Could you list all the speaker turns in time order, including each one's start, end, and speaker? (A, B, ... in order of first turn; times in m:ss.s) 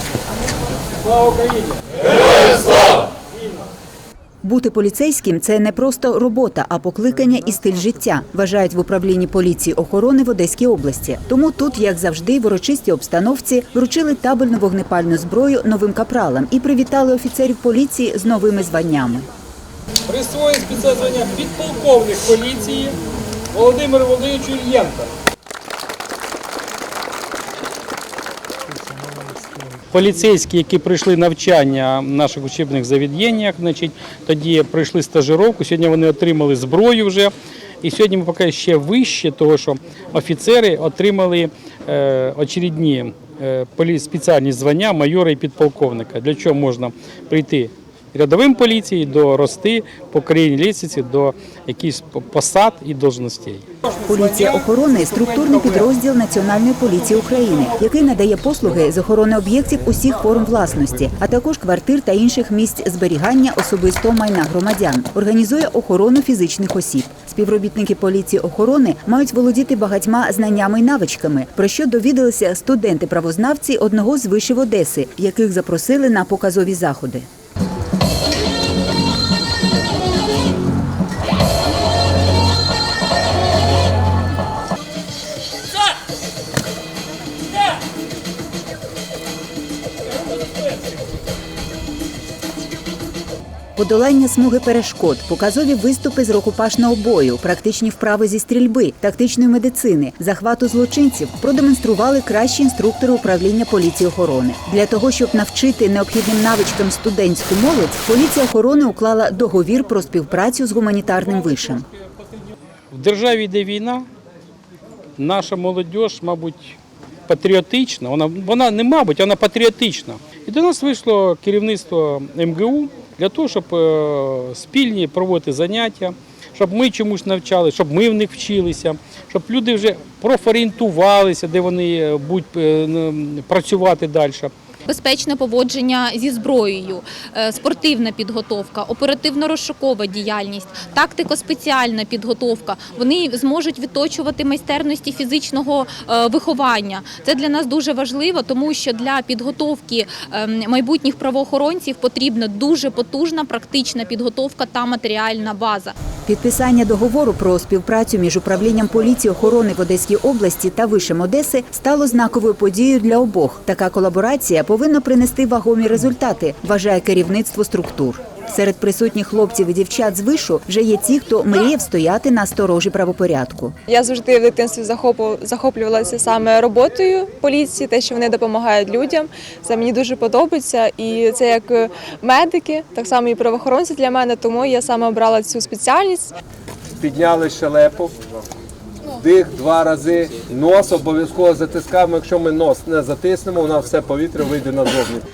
0:01.0-0:01.7 A
0:04.4-0:19.3 B
0:20.1-0:23.0 A
0:23.5-0:25.1 A
0:29.9-0:37.3 A
0:37.8-0:53.6 A
0:54.0-1:17.2 B
1:33.8-1:51.8 B
1:52.9-1:54.0 A
1:55.2-1:56.8 A
1:57.3-2:14.5 A
2:14.9-2:35.9 C
2:36.3-2:53.8 B
2:53.9-3:06.3 D
3:07.0-3:08.1 E
3:09.2-3:15.2 E